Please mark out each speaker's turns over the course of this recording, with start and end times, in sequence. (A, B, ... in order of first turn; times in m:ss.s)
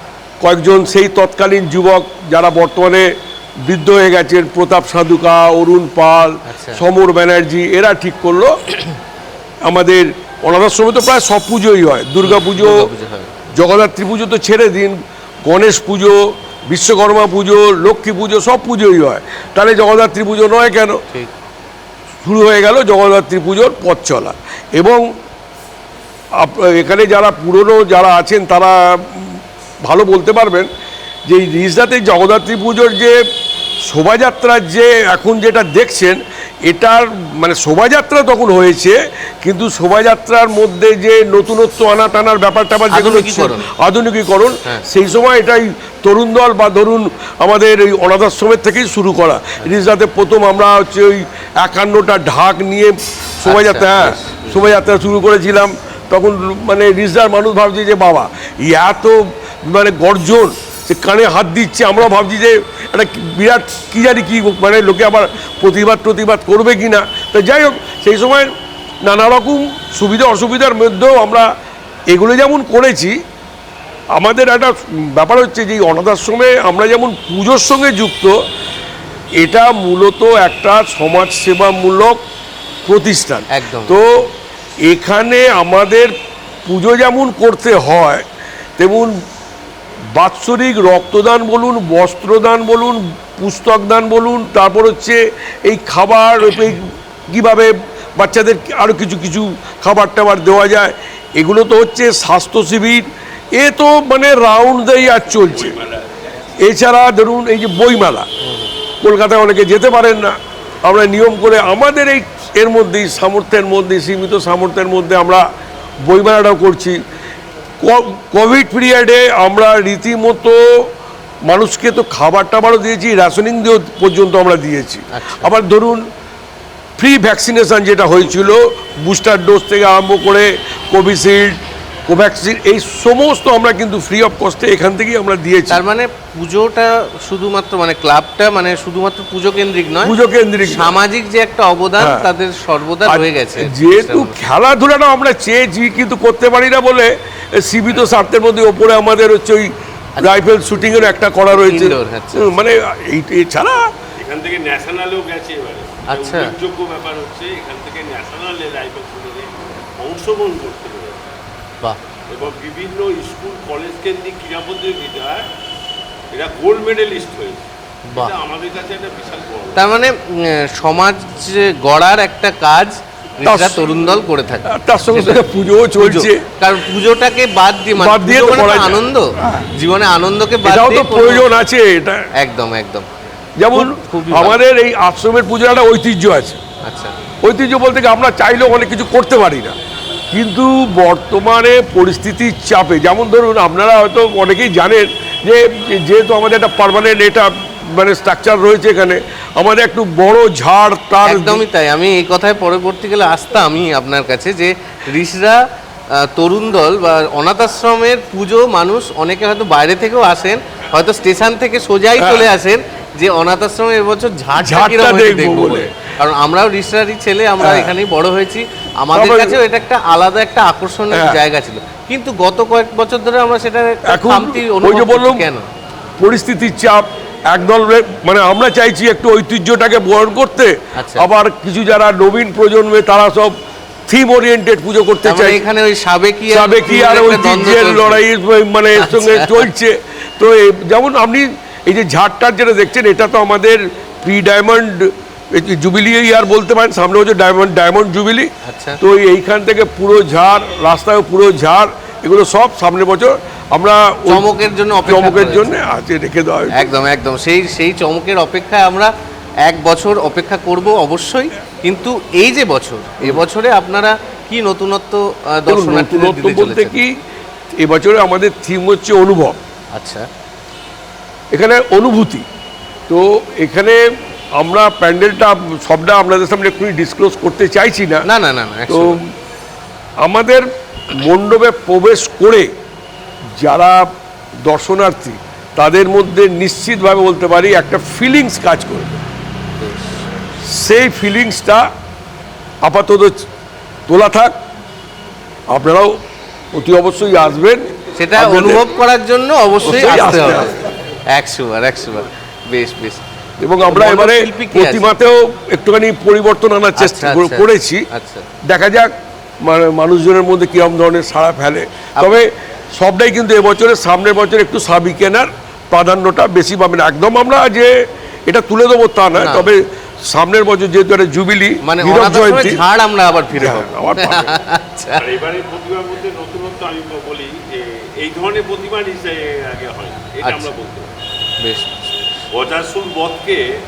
0:00.4-0:03.1 A
0:03.6-0:08.6 A
0:06.4-0:06.8 B
0:09.6-0:12.9 A
0:12.2-0:13.3 B
0:13.5-0:21.0 A
0:22.2-0:25.0 A
0:26.4-0:30.7 A
0:31.3-0:33.2 A
0:33.8-1:08.5 A
0:42.9-0:43.7 B
0:53.4-0:54.6 B
1:09.0-1:11.5 A
1:12.1-1:13.2 A
1:14.1-1:18.3 A
1:19.4-1:22.2 A
1:22.8-1:24.3 A
1:23.5-1:24.0 B
1:24.8-1:26.1 A
1:26.6-1:28.2 A
1:28.8-1:29.1 A
1:30.1-1:45.8 A
1:45.3-1:46.2 C
1:46.6-1:48.3 A
1:48.4-1:48.7 B
1:49.0-1:55.4 A
1:56.0-1:57.0 A
1:57.8-2:00.9 A
2:01.5-2:06.0 A
2:05.1-2:05.5 B
2:07.0-2:15.8 A
2:15.7-2:24.4 B
2:20.0-2:21.0 A
2:22.0-2:22.3 A
2:23.0-2:33.9 A
2:30.2-2:30.5 B
2:31.5-2:32.5 B
2:34.2-2:41.3 C
2:36.1-2:36.5 B
2:42.3-2:45.5 C
2:46.3-2:49.8 C
2:48.1-2:48.4 B
2:49.7-3:01.5 B
2:53.4-2:53.9 A
2:54.7-2:56.4 A
2:58.0-2:59.6 A
3:00.6-3:02.2 A
3:02.4-3:03.0 B
3:03.6-3:06.6 A
3:03.7-3:04.6 B
3:06.8-3:07.2 B
3:07.4-3:09.7 A
3:10.3-3:21.6 A
3:21.2-3:25.6 B
3:26.1-3:45.6 B
3:32.2-3:32.5 A
3:34.6-3:35.9 A
3:37.6-3:37.9 A
3:39.1-3:39.6 A
3:41.1-3:41.4 A
3:44.0-3:45.4 A
3:46.2-3:53.5 A
3:51.0-3:51.3 B
3:54.1-3:55.6 A
3:55.2-3:58.2 B
3:56.5-4:14.5 A
3:59.0-3:59.7 B
4:08.6-4:09.0 B
4:14.3-4:15.7 B
4:15.0-4:16.8 A
4:16.7-4:19.1 B
4:19.6-4:27.0 B
4:25.7-4:27.1 A
4:27.8-4:29.6 A
4:29.9-4:30.3 B
4:31.5-4:32.4 A
4:33.1-4:34.0 A
4:34.6-4:38.2 A
4:38.2-4:39.2 B
4:38.9-4:39.3 A
4:40.2-4:42.7 A
4:43.6-4:44.1 A
4:44.6-4:49.2 A
4:49.8-4:50.2 B
4:50.6-4:51.9 A
4:52.8-4:53.4 A
4:54.1-4:54.5 A
4:55.7-4:56.2 A
4:56.7-4:58.9 A
4:58.2-5:03.2 B
4:59.8-5:00.7 A
5:03.6-5:08.0 A
5:03.8-5:05.1 B
5:07.0-5:08.5 B
5:08.7-5:09.1 A
5:09.6-5:17.9 A
5:12.2-5:12.4 B
5:18.5-5:22.8 A
5:19.3-5:19.7 B
5:21.8-5:25.3 B
5:23.5-5:24.6 A
5:25.1-5:31.1 C
5:30.4-5:30.7 B
5:31.6-5:32.3 B
5:32.5-5:33.7 C